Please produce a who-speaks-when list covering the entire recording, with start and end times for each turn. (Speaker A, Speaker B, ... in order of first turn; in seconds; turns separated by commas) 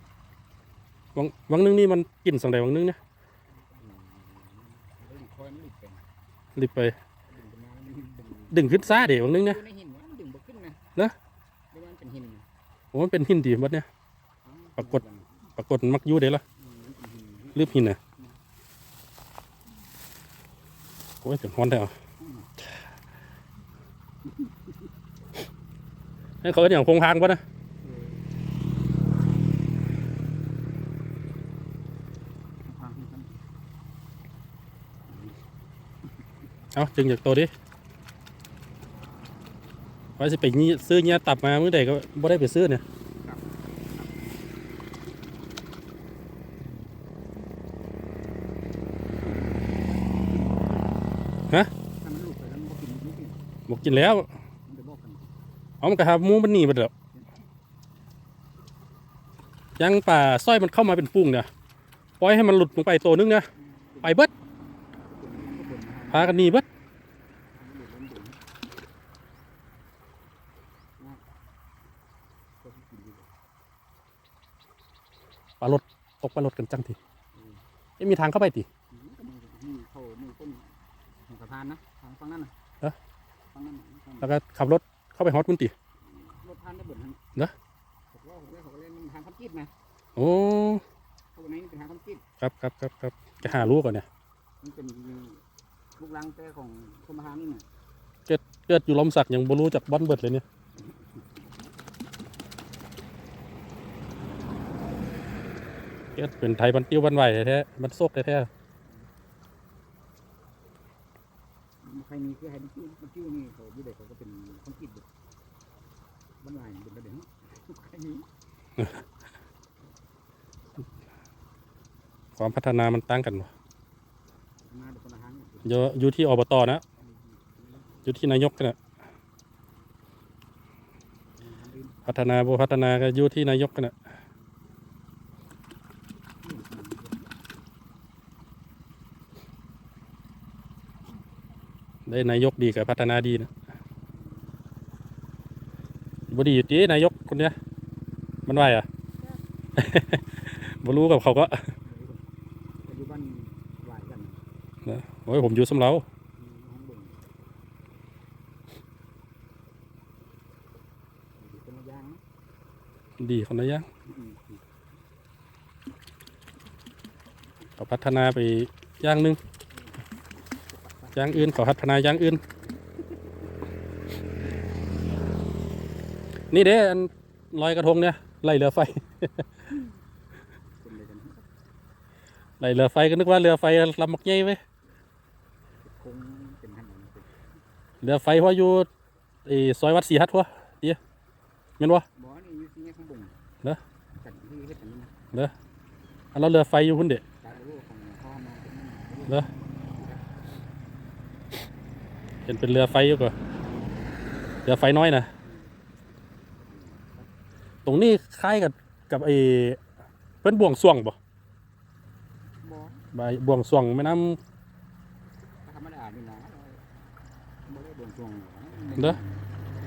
Speaker A: 1.1-3.0, Speaker B: 3.5-6.0, Speaker A: 6.5-6.9, Speaker B: 7.3-10.8, Speaker A: 8.5-9.6, Speaker B: 11.7-12.5, Speaker A: 12.9-13.8, Speaker B: 14.4-15.5, Speaker A: 14.8-15.0, Speaker A: 15.6-16.4, Speaker B: 16.6-18.4, Speaker A: 17.5-18.0, Speaker A: 21.2-21.9, Speaker B: 22.2-22.5, Speaker B: 24.3-24.7, Speaker A: 26.4-27.4, Speaker B: 27.8-28.3, Speaker B: 32.6-33.3, Speaker B: 35.1-35.4, Speaker A: 36.7-37.5, Speaker A: 40.2-42.8, Speaker B: 43.2-44.4, Speaker B: 49.2-51.1, Speaker B: 52.0-53.4, Speaker A: 53.7-54.3, Speaker B: 54.6-55.4, Speaker A: 55.8-56.9, Speaker B: 57.1-57.4, Speaker A: 59.8-61.5, Speaker A: 62.2-63.5, Speaker B: 63.5-64.2, Speaker A: 64.0-64.3, Speaker B: 65.0-66.4, Speaker A: 66.1-66.6, Speaker B: 67.5-68.4, Speaker B: 72.6-73.3, Speaker A: 75.6-76.9, Speaker B: 77.3-77.6, Speaker A: 78.0-78.7, Speaker B: 78.9-82.5, Speaker B: 83.5-84.3, Speaker A: 84.2-85.7, Speaker B: 86.0-87.2, Speaker B: 88.1-89.7, Speaker A: 90.2-90.8, Speaker B: 91.3-92.2, Speaker A: 92.4-94.0, Speaker B: 93.4-93.8, Speaker B: 94.6-95.4, Speaker B: 96.0-97.6, Speaker A: 98.3-100.4, Speaker B: 100.8-101.2, Speaker A: 106.2-108.5, Speaker B: 111.8-115.0, Speaker B: 116.4-118.2, Speaker A: 118.8-119.0, Speaker A: 122.4-123.5, Speaker B: 124.7-125.9, Speaker A: 125.6-126.8, Speaker B: 127.0-128.1, Speaker A: 128.0-128.8, Speaker B: 131.4-132.3, Speaker A: 132.1-133.9, Speaker B: 136.4-137.3, Speaker A: 142.1-143.5, Speaker B: 144.2-144.5, Speaker A: 146.3-147.5, Speaker A: 148.4-148.9, Speaker A: 149.8-151.6, Speaker B: 151.8-152.2, Speaker B: 152.8-154.4, Speaker A: 154.8-156.0, Speaker B: 156.4-157.2, Speaker B: 161.4-162.2, Speaker A: 163.2-163.9, Speaker B: 164.1-164.6, Speaker A: 167.8-169.4, Speaker B: 169.7-171.7, Speaker A: 171.1-172.4, Speaker B: 173.0-173.3, Speaker A: 176.5-179.4, Speaker B: 180.8-181.5, Speaker A: 182.6-184.6, Speaker B: 185.8-187.3, Speaker A: 188.0-188.9, Speaker A: 189.4-191.0, Speaker A: 191.8-192.0, Speaker B: 192.1-193.4, Speaker B: 194.1-195.1, Speaker A: 196.3-197.2, Speaker B: 197.4-200.2, Speaker A: 202.4-203.3, Speaker A: 204.6-205.3, Speaker B: 205.4-205.7, Speaker B: 206.6-207.3, Speaker A: 207.8-209.8, Speaker A: 210.4-211.1, Speaker B: 212.6-213.0, Speaker A: 213.1-214.4, Speaker B: 215.6-216.9, Speaker B: 217.7-219.5